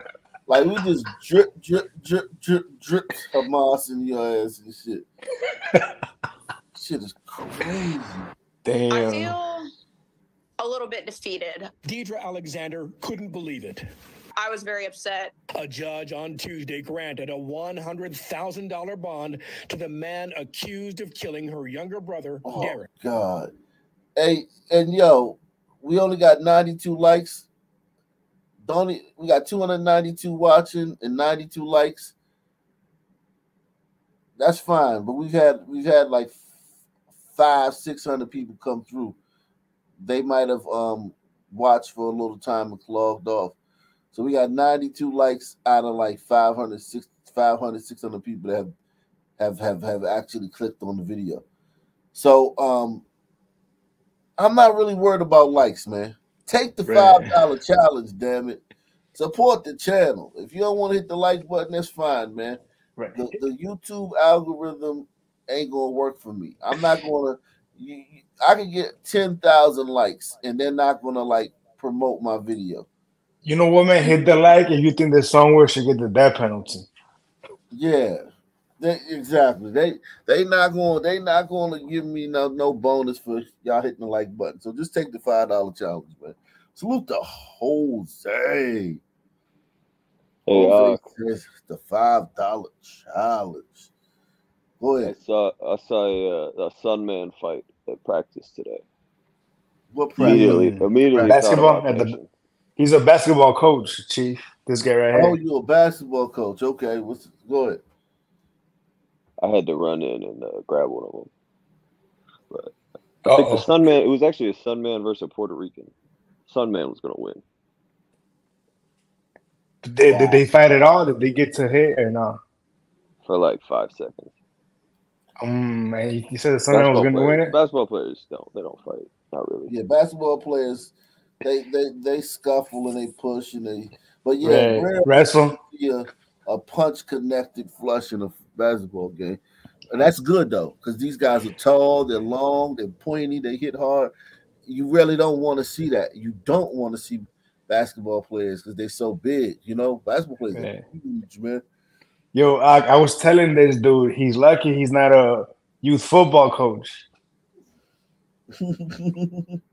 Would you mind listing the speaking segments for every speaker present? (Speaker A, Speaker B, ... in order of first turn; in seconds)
Speaker A: 0.5-5.0, 6.7-8.3, 22.4-23.5, 24.2-27.5, 28.6-32.1, 34.4-36.4, 37.3-39.2, 40.0-43.5, 44.1-48.7, 49.4-51.4, 52.1-53.0, 54.4-58.6, 59.1-62.6, 63.1-72.8, 77.7-78.2, 78.8-89.0, 90.5-93.9, 94.8-95.1, 99.9-100.5, 105.1-107.8, 120.1-120.4, 129.7-135.1, 135.6-139.4, 139.9-144.1, 144.7-151.6, 158.6-159.5
Speaker B: 8.6-9.3, 56.9-57.4, 73.4-76.9, 100.2-102.2, 102.8-105.3, 113.3-113.7, 119.8-122.4, 125.4-127.5, 134.4-135.6, 150.5-150.8, 152.3-157.0
Speaker C: 8.9-9.7, 10.6-11.7, 14.3-15.3
Speaker D: 11.8-13.8, 15.6-22.9
Speaker E: 90.5-91.0, 95.0-98.8, 100.2-102.3, 109.4-111.3, 113.2-115.9, 116.5-117.4, 123.2-124.3, 126.7-129.7